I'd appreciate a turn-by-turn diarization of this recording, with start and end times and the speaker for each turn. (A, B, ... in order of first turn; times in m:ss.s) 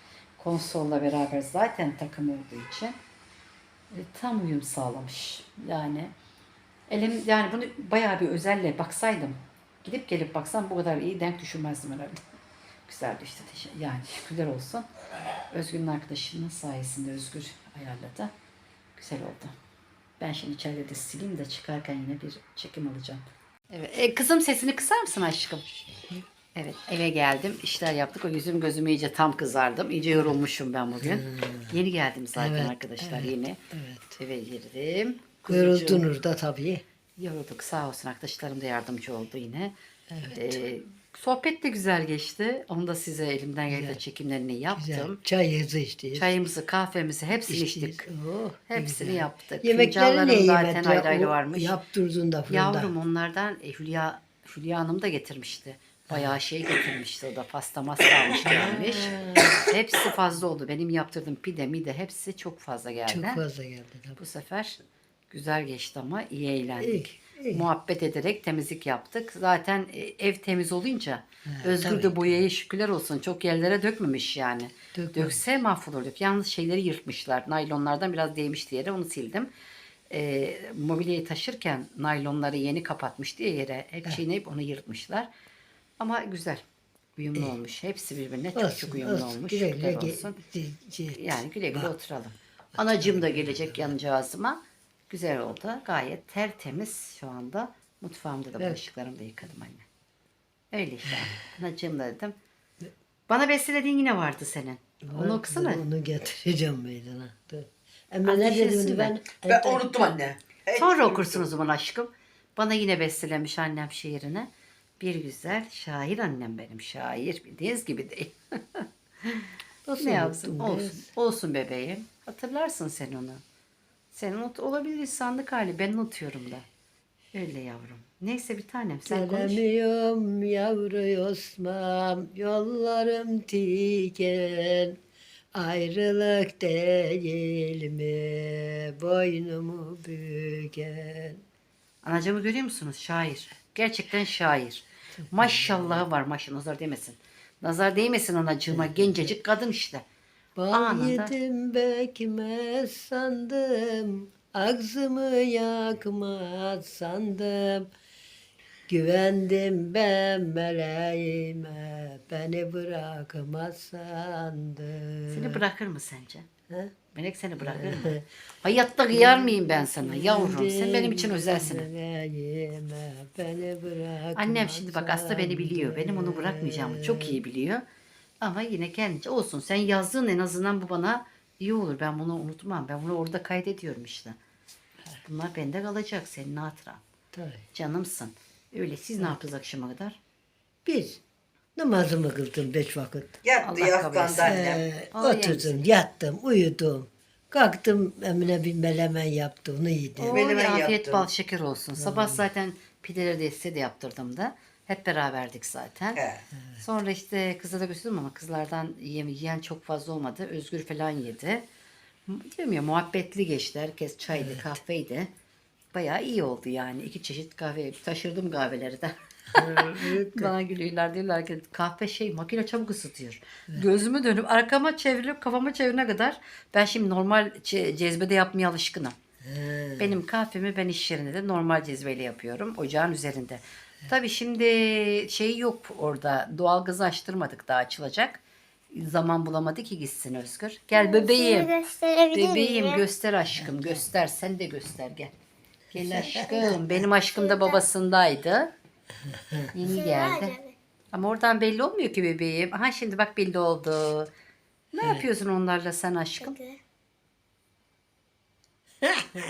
0:00.4-0:03.0 A
0:03.9-0:06.1 A
0:06.9-0:12.2 A
0:12.9-0:14.9 A
0:15.5-0:18.3 A
0:19.0-0:19.5 A
0:20.2-0:25.7 A
0:26.5-0:33.6 A
0:31.0-0:31.8 B
0:32.4-0:34.2 B
0:34.2-0:36.1 A
0:35.5-0:36.8 B
0:37.2-0:45.2 A
0:40.1-0:40.6 B
0:43.7-0:44.0 B
0:44.7-0:46.4 B
0:46.1-0:48.1 A
0:47.5-0:52.9 B
0:48.7-0:51.8 A
0:52.5-1:03.4 A
0:58.4-0:59.6 B
1:03.1-1:04.2 B
1:04.2-1:04.8 A
1:05.3-1:19.5 A
1:06.8-1:07.6 B
1:11.5-1:12.3 B
1:14.9-1:15.4 B
1:20.1-1:25.3 A
1:26.0-1:26.6 A
1:27.2-1:30.4 A
1:28.5-1:31.9 B
1:31.1-1:39.8 A
1:32.8-1:33.7 B
1:40.7-1:42.4 A
1:43.3-1:45.8 A
1:45.0-1:50.2 B
1:48.2-1:49.1 A
1:49.5-1:50.8 C
1:50.7-2:03.4 A
1:59.8-2:01.1 B
2:04.1-2:06.6 A
2:07.3-2:09.6 A
2:09.1-2:15.0 B
2:15.5-2:21.4 B
2:22.0-2:30.0 A
2:25.3-2:26.0 B
2:28.7-2:29.3 B
2:30.6-2:37.9 B
2:30.7-2:31.3 A
2:38.9-2:45.6 B
2:45.3-2:46.5 A
2:47.1-2:51.9 A
2:47.6-2:48.2 B
2:49.1-2:57.4 B
2:54.4-2:57.8 A
2:58.4-3:04.4 A
3:05.2-3:07.0 A
3:07.3-3:07.6 B
3:07.7-3:10.2 A
3:10.8-3:11.2 B
3:11.8-3:13.3 B
3:13.4-3:14.8 C
3:13.5-3:15.8 A
3:14.4-3:20.4 B
3:20.2-3:31.7 A
3:20.3-3:21.2 C
3:22.0-3:22.4 B
3:32.3-3:35.3 A
3:34.3-3:34.6 B
3:35.9-3:49.1 A
3:39.5-3:40.5 B
3:49.4-3:50.2 B
3:50.0-4:01.8 A
4:00.9-4:03.0 D
4:02.3-4:05.3 A
4:05.9-4:08.7 A
4:06.0-4:06.7 B
4:06.2-4:07.8 D
4:09.7-4:10.6 A
4:09.9-4:10.7 D
4:11.1-4:14.3 A
4:14.9-4:16.6 A
4:16.4-4:16.8 D
4:19.0-4:19.4 B